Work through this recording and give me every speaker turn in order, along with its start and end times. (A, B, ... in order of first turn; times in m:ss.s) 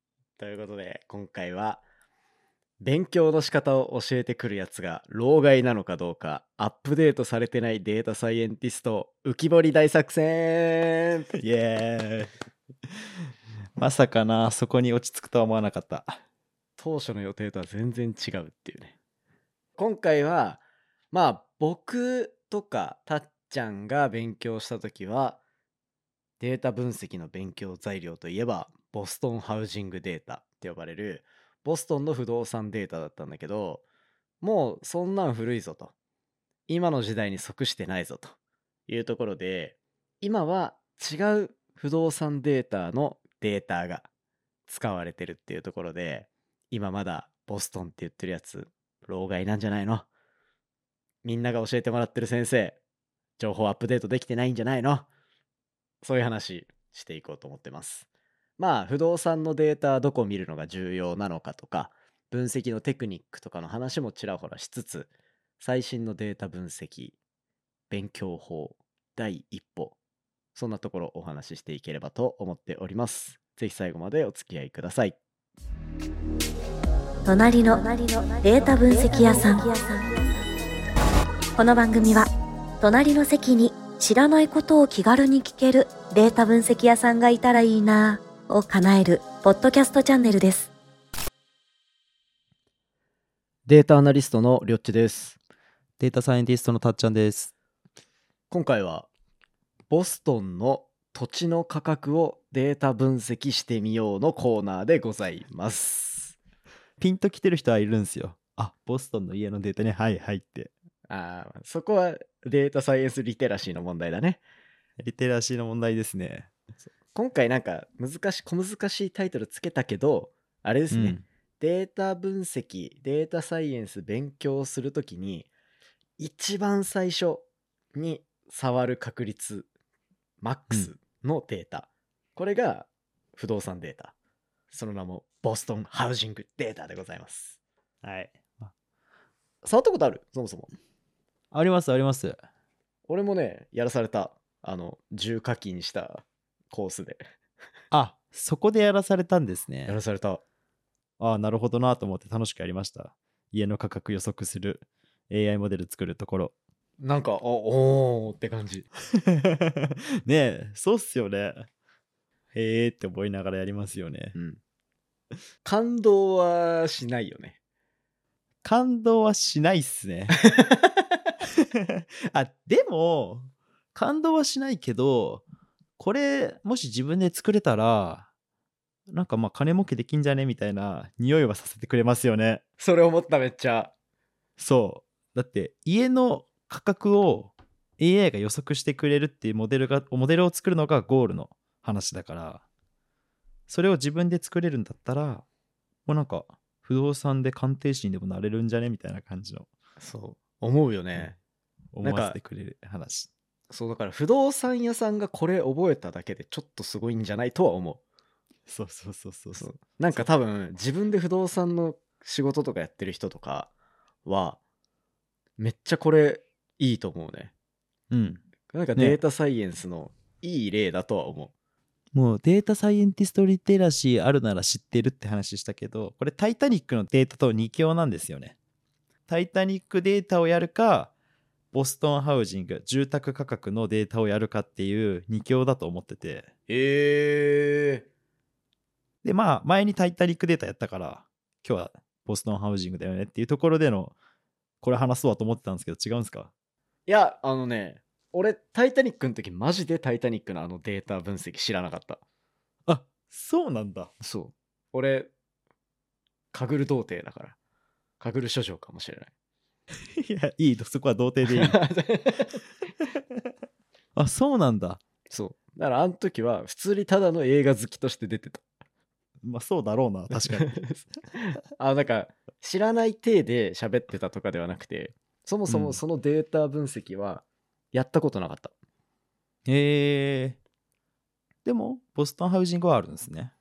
0:00.4-0:01.8 A
0:02.8-0:11.3 A
0:11.3-0:12.3 B
0:13.8-0:16.2 B
0:16.8-0:19.0 A
0:19.8-0:25.4 A
0:26.4-0:33.8 A
0:34.4-0:35.9 A
0:36.7-0:38.3 A
0:38.9-0:44.1 A
0:44.7-0:50.1 A
0:51.2-0:52.8 A
0:53.4-0:55.1 A
0:56.0-0:58.1 A
0:58.6-1:07.2 A
1:07.9-1:10.0 A
1:10.6-1:15.2 A
1:17.2-1:20.2 C
1:21.6-1:22.3 C
1:22.8-1:30.7 C
1:33.7-1:35.4 A
1:36.0-1:37.5 B
1:38.5-1:39.1 A
1:39.9-1:46.4 A
1:47.0-1:50.7 B
1:51.1-1:54.4 A
1:55.0-1:56.5 B
1:57.1-2:05.5 A
2:00.9-2:01.2 B
2:06.2-2:07.4 A
2:07.9-2:09.7 A
2:10.4-2:14.1 A
2:14.7-2:17.6 A
2:18.0-2:18.7 B
2:19.6-2:20.7 A
2:21.5-2:22.4 B
2:23.1-2:27.2 A
2:27.9-2:30.0 B
2:29.9-2:30.4 A
2:31.2-2:36.5 B
2:37.0-2:38.9 A
2:39.1-2:41.7 B
2:42.5-2:44.3 B
2:44.3-2:44.6 A
2:45.6-2:47.6 A
2:48.6-2:50.4 B
2:50.4-2:51.0 A
2:51.6-2:55.4 B
2:56.0-2:58.3 B
2:59.1-3:02.6 B
3:02.8-3:03.9 A
3:04.6-3:12.6 B
3:13.7-3:15.4 B
3:16.1-3:19.7 B
3:20.0-3:21.4 A
3:21.9-3:23.3 B
3:22.0-3:22.4 A
3:23.7-3:28.0 A
3:28.7-3:30.3 B
3:29.6-3:33.7 A
3:34.2-3:34.6 A
3:35.6-3:37.5 A
3:38.1-3:38.4 B
3:38.7-3:41.5 A
3:42.1-3:48.6 B
3:49.3-3:51.1 B
3:51.7-3:56.5 B
3:56.7-3:58.1 A
3:59.2-4:04.2 B
4:04.8-4:06.5 B
4:07.1-4:12.2 A
4:12.9-4:14.1 B
4:14.2-4:15.3 A
4:16.5-4:17.6 A
4:18.2-4:19.3 A
4:20.1-4:21.8 B
4:21.5-4:22.6 A
4:24.1-4:25.0 B
4:25.3-4:28.6 A
4:29.4-4:30.8 B
4:30.5-4:38.7 A
4:35.7-4:36.0 B
4:39.7-4:40.6 B
4:41.6-4:43.5 B